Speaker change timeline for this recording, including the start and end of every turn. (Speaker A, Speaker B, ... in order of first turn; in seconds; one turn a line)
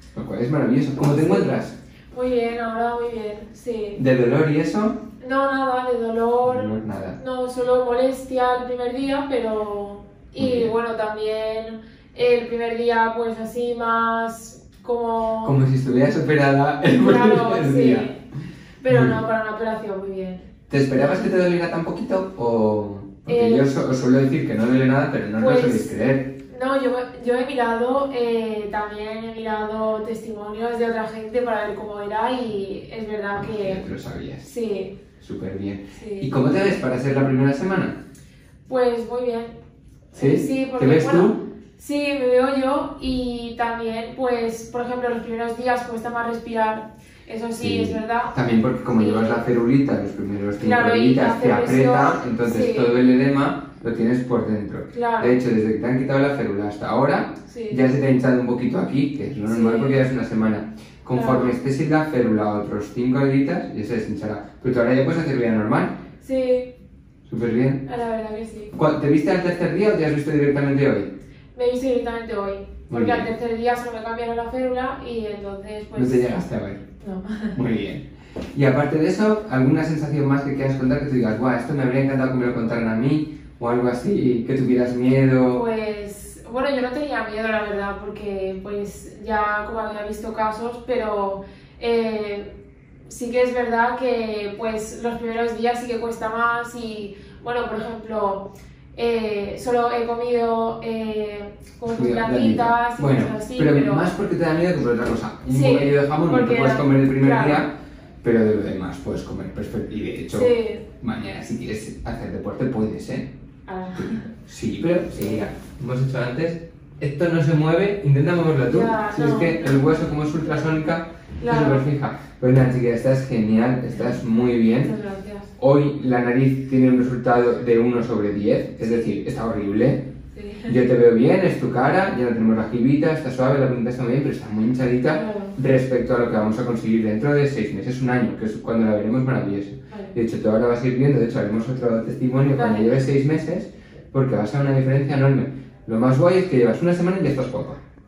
Speaker A: 0.1-1.7
Speaker B: 0.9-1.6
Speaker B: 2.1-4.0
Speaker A: 3.9-5.0
Speaker B: 5.2-15.6
Speaker A: 6.4-7.2
Speaker A: 10.4-10.7
Speaker A: 15.4-18.1
Speaker B: 16.9-18.2
Speaker B: 18.8-21.4
Speaker A: 18.9-19.2
Speaker A: 20.7-26.3
Speaker B: 23.3-23.8
Speaker B: 25.4-33.9
Speaker A: 33.4-34.5
Speaker B: 34.4-35.0
Speaker A: 35.1-37.9
Speaker B: 35.9-36.4
Speaker B: 38.7-39.5
Speaker B: 40.1-49.4
Speaker A: 40.1-41.4
Speaker A: 47.6-65.9
Speaker B: 50.6-52.9
Speaker B: 54.9-55.4
Speaker B: 57.5-57.8
Speaker B: 59.5-60.0
Speaker B: 61.1-61.5
Speaker B: 66.2-66.7
Speaker A: 67.3-67.8
Speaker B: 67.8-68.7
Speaker A: 68.7-71.1
Speaker B: 71.5-76.3
Speaker A: 72.9-73.3
Speaker A: 75.9-76.9
Speaker B: 77.0-77.6
Speaker A: 77.5-85.6
Speaker B: 85.5-92.5
Speaker B: 93.1-104.1
Speaker A: 101.9-107.7
Speaker B: 105.5-107.6
Speaker A: 108.2-113.3
Speaker B: 110.3-110.8
Speaker B: 113.7-114.2
Speaker A: 114.0-124.9
Speaker B: 115.1-115.5
Speaker B: 118.7-119.8
Speaker B: 121.4-121.8
Speaker B: 124.8-125.5
Speaker A: 125.6-130.0
Speaker B: 128.8-129.1
Speaker B: 130.3-130.8
Speaker A: 130.7-147.8
Speaker B: 135.1-135.5
Speaker B: 139.9-140.1
Speaker B: 142.5-143.0